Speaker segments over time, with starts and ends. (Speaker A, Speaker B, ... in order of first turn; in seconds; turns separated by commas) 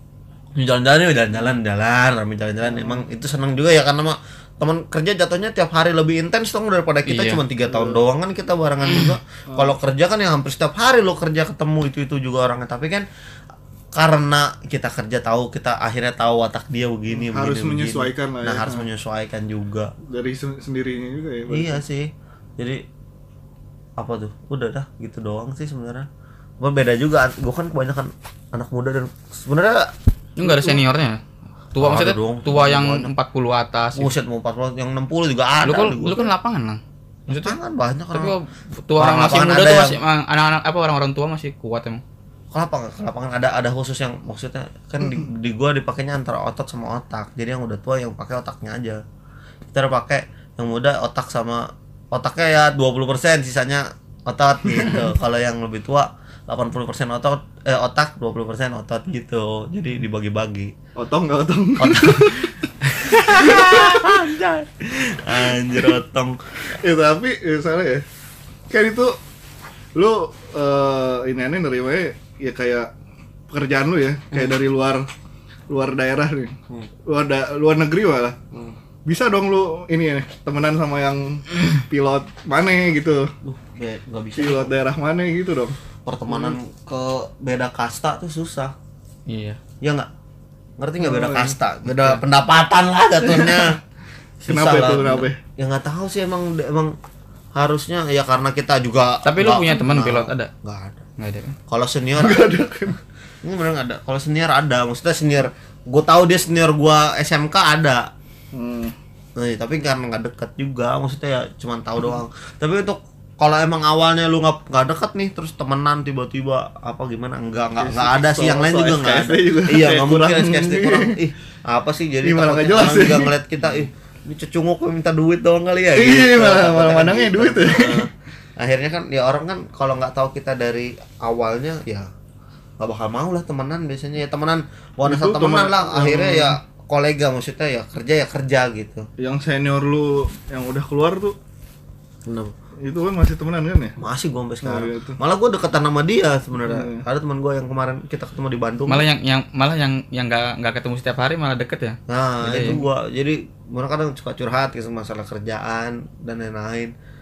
Speaker A: 0.6-13.1, Speaker B: 2.7-3.0, Speaker C: 7.1-7.4, Speaker B: 7.7-8.0, Speaker C: 8.8-9.2, Speaker A: 13.9-19.9, Speaker B: 17.1-18.9, Speaker B: 20.0-21.8, Speaker A: 21.5-22.8, Speaker A: 24.0-26.1, Speaker A: 26.6-30.8, Speaker C: 30.4-31.2, Speaker C: 31.7-34.1, Speaker A: 31.8-33.1, Speaker A: 34.0-36.3, Speaker C: 35.6-37.6, Speaker A: 37.3-38.4, Speaker C: 38.1-42.0, Speaker A: 39.0-40.0, Speaker A: 42.5-49.0, Speaker A: 49.7-60.7, Speaker B: 61.0-62.5, Speaker A: 61.8-62.4, Speaker A: 63.0-66.4, Speaker B: 63.5-63.7, Speaker B: 66.8-68.0, Speaker B: 68.7-69.2, Speaker B: 70.0-72.9, Speaker B: 73.5-75.1, Speaker B: 75.7-76.5, Speaker B: 77.1-78.4, Speaker B: 79.0-83.3, Speaker A: 83.4-84.7, Speaker B: 84.4-85.8, Speaker A: 86.1-88.7, Speaker C: 89.3-89.6, Speaker A: 89.8-90.1, Speaker A: 90.8-93.8, Speaker B: 91.0-91.6, Speaker B: 93.2-93.8, Speaker A: 94.4-97.0, Speaker B: 94.5-95.4, Speaker A: 97.5-101.0, Speaker C: 99.2-100.5, Speaker C: 101.2-101.6, Speaker A: 101.7-102.5, Speaker B: 102.2-103.0, Speaker A: 103.4-108.1, Speaker B: 108.5-108.9, Speaker A: 109.4-132.1, Speaker B: 117.8-121.2, Speaker B: 122.2-123.3, Speaker B: 126.0-128.1, Speaker A: 132.8-139.1, Speaker B: 135.1-136.6, Speaker B: 139.2-141.3, Speaker A: 142.3-142.6, Speaker B: 142.8-143.9, Speaker A: 144.0-149.0, Speaker B: 144.6-145.2, Speaker B: 146.6-147.1, Speaker C: 148.9-152.8, Speaker A: 152.1-156.9